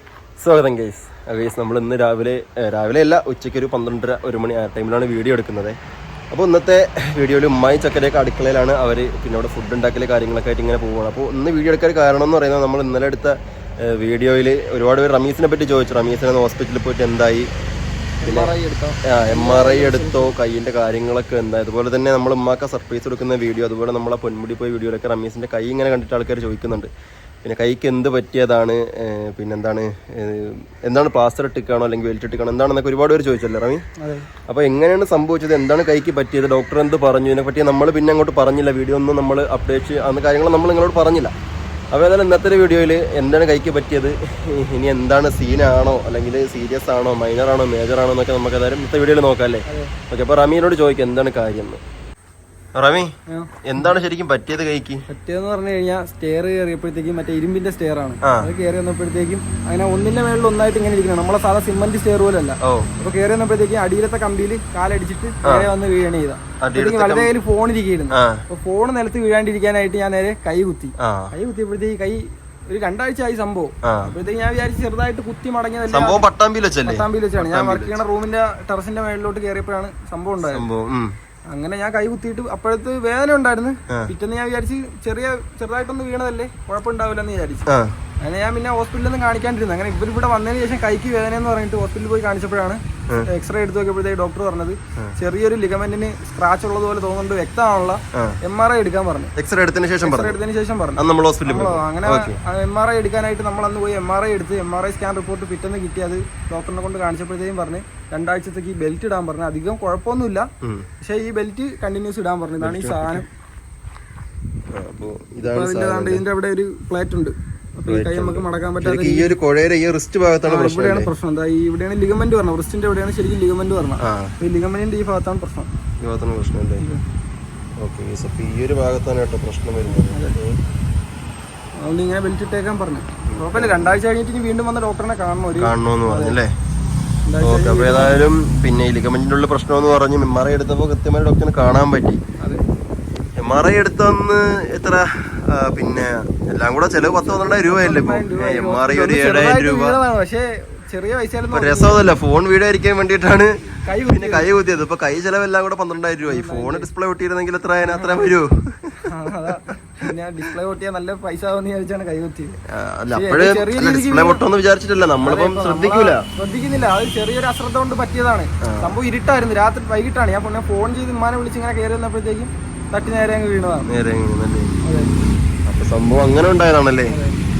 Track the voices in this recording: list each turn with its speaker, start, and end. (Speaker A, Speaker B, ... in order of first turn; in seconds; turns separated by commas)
Speaker A: 0.4-5.8, Speaker A: 6.3-17.5, Speaker B: 18.2-20.3, Speaker A: 18.2-18.5, Speaker A: 19.1-26.9, Speaker A: 27.4-33.8, Speaker B: 34.0-34.3, Speaker A: 34.5-41.3, Speaker A: 41.9-51.8, Speaker B: 49.7-49.9, Speaker A: 52.8-53.1, Speaker B: 53.3-53.8, Speaker A: 53.6-55.0, Speaker B: 55.1-76.2, Speaker A: 62.6-62.9, Speaker A: 66.6-67.3, Speaker A: 68.1-68.4, Speaker A: 71.0-71.3, Speaker A: 73.8-74.1, Speaker A: 75.9-78.0, Speaker B: 76.8-80.6, Speaker A: 80.5-81.1, Speaker B: 81.5-87.7, Speaker A: 87.7-87.9, Speaker B: 88.2-99.3, Speaker A: 99.4-100.4, Speaker B: 100.0-110.5, Speaker A: 101.0-102.4, Speaker A: 110.6-110.9, Speaker B: 111.0-113.3, Speaker A: 112.6-113.2, Speaker A: 114.7-116.2, Speaker B: 115.4-119.3, Speaker A: 117.9-121.1, Speaker B: 120.5-125.7, Speaker A: 124.0-124.3, Speaker A: 126.0-126.8, Speaker A: 127.8-130.6, Speaker B: 130.1-130.4, Speaker B: 131.8-136.4, Speaker A: 133.2-133.9, Speaker A: 135.6-136.5, Speaker B: 137.2-138.3, Speaker A: 137.4-142.2, Speaker A: 143.4-150.0, Speaker B: 147.1-152.0, Speaker A: 151.5-159.1, Speaker B: 153.9-154.5, Speaker B: 156.2-156.9, Speaker B: 157.8-158.3, Speaker B: 159.1-162.6, Speaker A: 162.7-166.2, Speaker B: 163.1-164.4, Speaker B: 165.2-173.9, Speaker A: 168.6-168.9, Speaker A: 173.9-174.7, Speaker B: 174.8-175.1, Speaker A: 175.7-177.2, Speaker B: 177.1-177.4